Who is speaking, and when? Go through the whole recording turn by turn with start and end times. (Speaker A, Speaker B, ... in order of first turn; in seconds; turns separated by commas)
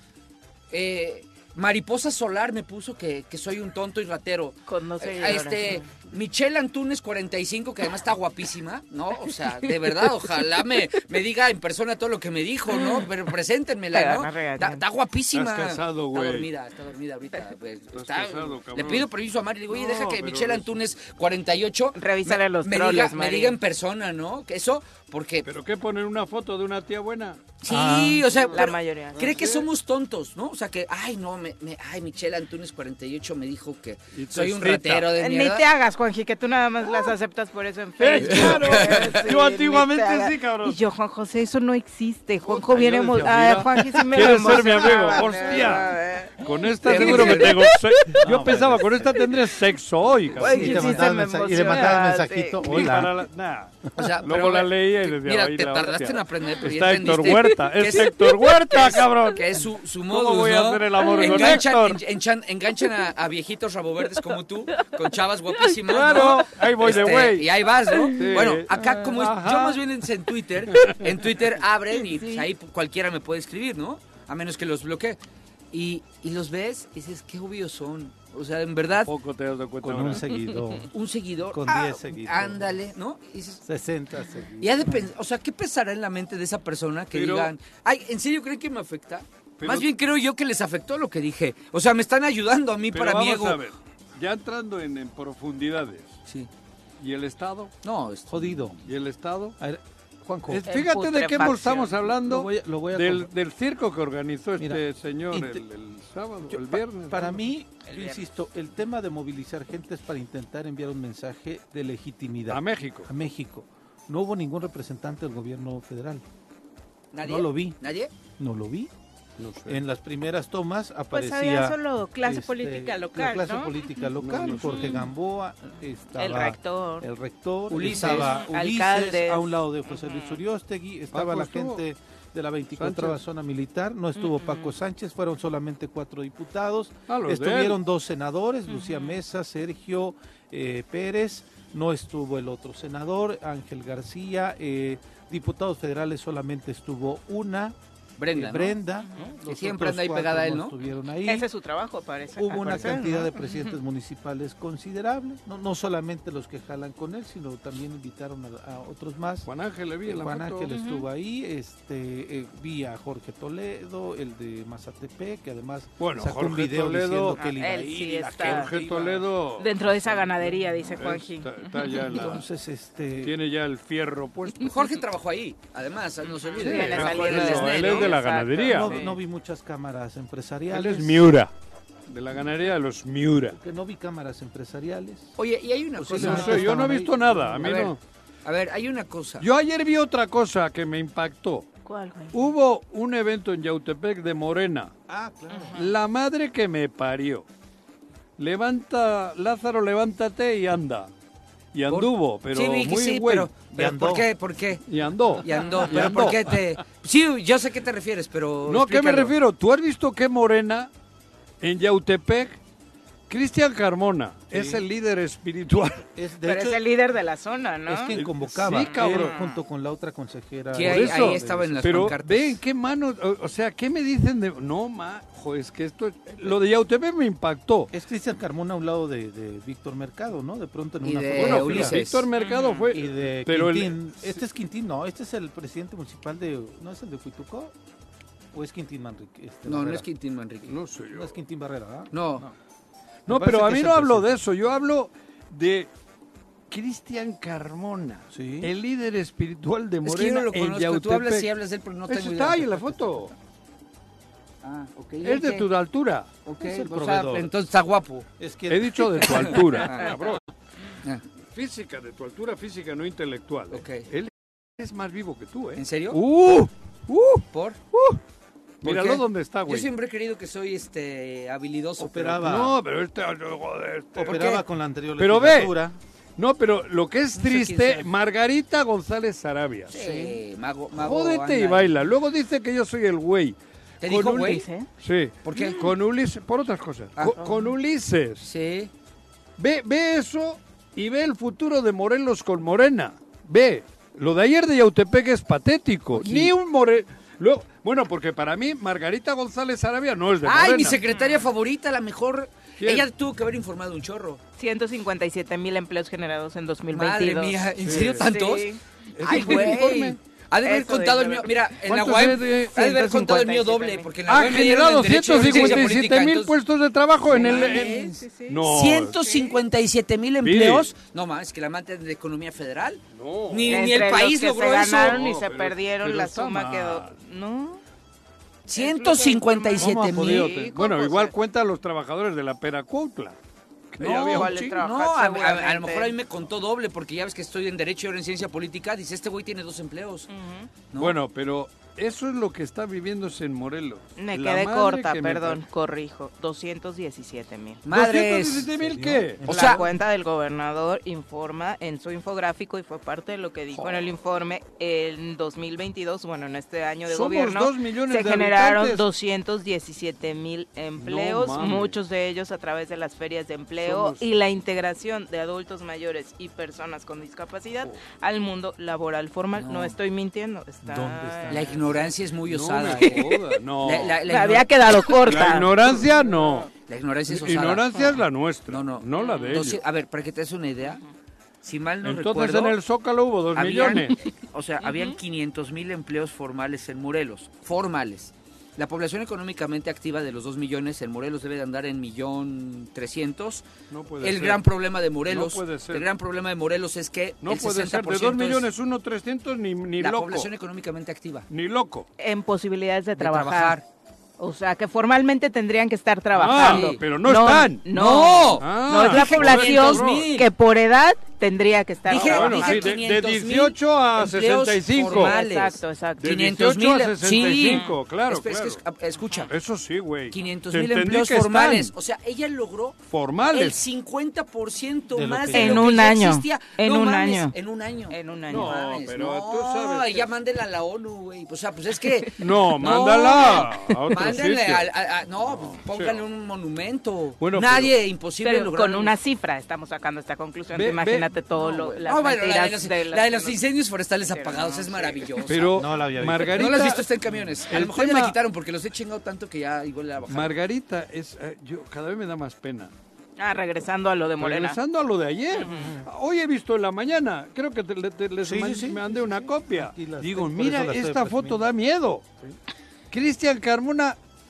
Speaker A: 0.7-25.5, Speaker B: 4.7-5.8, Speaker B: 12.7-13.0, Speaker B: 13.9-14.8, Speaker C: 15.3-16.5, Speaker C: 17.9-19.1, Speaker C: 19.7-20.8, Speaker B: 21.9-23.6, Speaker C: 25.4-27.4, Speaker A: 27.6-35.7, Speaker D: 27.7-28.3, Speaker B: 28.5-29.3, Speaker C: 29.1-29.7, Speaker C: 34.1-35.1, Speaker B: 35.1-46.3, Speaker C: 38.0-40.8, Speaker A: 38.2-39.1, Speaker C: 42.5-52.0, Speaker B: 46.8-47.5, Speaker A: 46.9-47.7, Speaker D: 48.2-49.3, Speaker D: 50.3-53.1, Speaker B: 50.4-52.6, Speaker C: 52.6-62.0, Speaker A: 54.0-75.2, Speaker C: 65.8-69.8, Speaker C: 70.8-71.1, Speaker A: 75.7-79.1, Speaker C: 79.0-80.3, Speaker D: 79.8-80.9, Speaker A: 80.9-83.6, Speaker D: 81.5-82.8, Speaker D: 83.6-85.1, Speaker A: 84.6-93.6, Speaker C: 87.1-87.5, Speaker C: 89.6-89.9, Speaker C: 92.9-96.2, Speaker C: 97.0-97.7, Speaker A: 97.8-98.7, Speaker D: 98.3-98.8, Speaker C: 98.8-99.5, Speaker D: 99.6-100.7, Speaker C: 100.5-107.4, Speaker B: 100.7-101.9, Speaker D: 102.1-103.3, Speaker D: 105.3-105.6, Speaker D: 106.5-116.2, Speaker C: 112.5-113.1, Speaker A: 117.1-118.1, Speaker D: 117.2-117.8, Speaker D: 118.4-118.9, Speaker C: 119.4-119.8, Speaker D: 119.7-147.8, Speaker B: 121.1-123.8, Speaker C: 124.2-125.0, Speaker B: 126.2-127.0, Speaker A: 127.7-128.4, Speaker C: 127.7-128.2, Speaker B: 128.2-130.4, Speaker C: 131.1-131.8, Speaker C: 132.8-133.2, Speaker B: 134.2-134.7, Speaker C: 137.1-137.8, Speaker B: 138.7-139.2, Speaker A: 148.2-148.8, Speaker D: 148.3-151.5, Speaker B: 149.0-149.3, Speaker A: 149.4-150.8, Speaker B: 151.2-153.7, Speaker D: 152.3-159.5, Speaker C: 159.4-160.7, Speaker D: 160.0-169.3, Speaker B: 160.7-161.0, Speaker C: 166.0-167.4, Speaker B: 167.3-168.7, Speaker C: 168.4-172.4, Speaker B: 169.6-172.0, Speaker D: 172.0-173.3, Speaker C: 173.2-174.7, Speaker A: 174.6-178.2, Speaker B: 176.6-179.2, Speaker C: 176.6-179.0, Speaker D: 178.7-181.4, Speaker C: 180.7-181.5, Speaker C: 182.1-183.6, Speaker D: 183.5-185.3, Speaker A: 185.4-186.8, Speaker D: 185.9-187.9, Speaker C: 186.1-188.0, Speaker A: 187.6-187.9, Speaker A: 188.4-189.4, Speaker C: 189.4-191.7, Speaker B: 191.8-192.4, Speaker C: 192.3-194.9, Speaker D: 195.1-195.9, Speaker B: 195.5-195.8, Speaker C: 195.7-197.4, Speaker C: 198.4-201.1, Speaker C: 201.7-203.5, Speaker A: 201.9-204.8, Speaker D: 203.7-204.3, Speaker C: 204.9-206.7, Speaker A: 205.4-209.3, Speaker D: 206.0-206.3, Speaker C: 208.7-210.9, Speaker C: 211.6-212.6, Speaker C: 213.3-216.0, Speaker D: 214.5-214.8, Speaker D: 216.2-216.9, Speaker B: 216.4-218.1, Speaker D: 217.8-222.1, Speaker C: 218.1-219.4, Speaker B: 218.8-219.6, Speaker A: 220.7-222.6, Speaker C: 220.8-227.9, Speaker D: 227.9-232.0, Speaker A: 231.0-232.3, Speaker C: 231.3-234.4, Speaker B: 232.3-232.9, Speaker D: 232.9-237.7, Speaker D: 238.5-240.1, Speaker A: 239.6-240.8, Speaker C: 240.7-241.3, Speaker D: 241.1-242.5, Speaker A: 242.1-242.4, Speaker C: 243.2-245.9, Speaker D: 243.3-244.4, Speaker C: 246.7-251.5, Speaker D: 248.3-248.7, Speaker A: 250.0-253.0, Speaker C: 252.1-253.3, Speaker A: 254.6-255.7, Speaker C: 255.2-256.3, Speaker A: 256.4-258.3, Speaker D: 256.6-257.5, Speaker D: 258.4-259.7, Speaker C: 258.7-260.4, Speaker A: 259.2-260.2, Speaker C: 261.5-268.2, Speaker A: 263.7-264.1, Speaker A: 265.8-266.2, Speaker A: 267.5-267.8, Speaker C: 268.8-269.9, Speaker A: 268.8-272.5, Speaker D: 272.0-272.8, Speaker C: 272.4-274.6, Speaker D: 274.1-276.0, Speaker A: 274.2-274.6, Speaker C: 275.2-275.8, Speaker C: 276.4-279.9, Speaker A: 277.4-278.1, Speaker A: 279.9-281.9, Speaker B: 279.9-280.4, Speaker C: 280.9-288.5, Speaker A: 284.0-284.6, Speaker B: 284.5-284.9, Speaker A: 285.4-285.9, Speaker A: 287.2-287.5, Speaker A: 288.4-288.9, Speaker C: 289.6-301.0, Speaker A: 296.2-296.5, Speaker A: 300.4-304.4, Speaker B: 301.1-301.5, Speaker C: 302.8-303.1, Speaker B: 304.6-308.8, Speaker A: 306.9-308.7, Speaker C: 307.8-308.3, Speaker C: 309.2-310.2, Speaker A: 309.2-316.5, Speaker B: 309.3-309.9, Speaker B: 310.6-311.5, Speaker C: 311.8-312.8, Speaker B: 312.7-314.1, Speaker C: 314.3-319.2, Speaker B: 315.5-315.8, Speaker A: 317.3-325.2, Speaker B: 317.3-319.6, Speaker C: 320.4-320.9, Speaker C: 323.1-324.1, Speaker B: 323.7-327.8, Speaker C: 325.0-327.1, Speaker A: 328.6-330.5, Speaker B: 328.7-331.3, Speaker C: 329.8-333.4, Speaker C: 333.9-334.7, Speaker A: 334.0-340.3, Speaker B: 334.3-336.1, Speaker B: 340.3-340.7, Speaker C: 341.0-345.6, Speaker B: 344.2-347.8, Speaker A: 347.9-348.7, Speaker C: 347.9-349.5, Speaker D: 348.8-349.9, Speaker A: 349.4-349.8, Speaker B: 349.4-371.7, Speaker C: 353.7-354.1, Speaker C: 357.1-359.0, Speaker C: 361.0-361.9, Speaker C: 363.8-364.2, Speaker A: 369.5-370.0, Speaker D: 370.8-372.1, Speaker A: 371.5-374.7, Speaker C: 372.4-374.5, Speaker B: 374.2-376.7, Speaker C: 375.3-376.7, Speaker A: 376.9-377.9, Speaker C: 377.3-379.8, Speaker A: 378.7-381.0, Speaker B: 379.2-379.6, Speaker A: 381.6-382.8, Speaker C: 382.0-384.2, Speaker A: 383.5-393.7, Speaker B: 384.8-385.1, Speaker C: 393.9-394.6, Speaker A: 394.2-398.6, Speaker C: 395.3-396.1, Speaker C: 397.4-400.5, Speaker A: 400.0-401.5, Speaker C: 401.5-402.1, Speaker B: 402.2-403.8, Speaker A: 403.2-403.8, Speaker B: 404.4-412.9, Speaker C: 406.3-407.8, Speaker A: 406.6-407.0, Speaker A: 407.9-410.5, Speaker C: 408.6-410.3, Speaker C: 412.1-415.3, Speaker A: 412.1-419.5, Speaker B: 415.1-416.3, Speaker C: 416.2-418.8, Speaker B: 417.6-417.9, Speaker C: 419.5-421.9, Speaker A: 420.3-439.1, Speaker C: 423.1-423.8, Speaker D: 425.1-425.9, Speaker B: 425.5-427.5, Speaker B: 428.1-428.7, Speaker C: 428.5-430.3, Speaker C: 432.4-434.9, Speaker B: 433.7-434.0, Speaker C: 435.4-436.2, Speaker C: 437.4-437.9, Speaker B: 438.4-443.6, Speaker C: 440.7-441.3, Speaker A: 441.5-445.9, Speaker B: 444.2-445.3, Speaker C: 445.4-447.1, Speaker D: 445.7-446.8, Speaker A: 446.5-450.6, Speaker C: 447.7-448.4, Speaker C: 450.3-452.9, Speaker B: 453.4-454.8, Speaker C: 454.4-462.2, Speaker B: 455.5-455.9, Speaker D: 455.7-456.1, Speaker D: 458.4-461.7, Speaker C: 463.1-464.2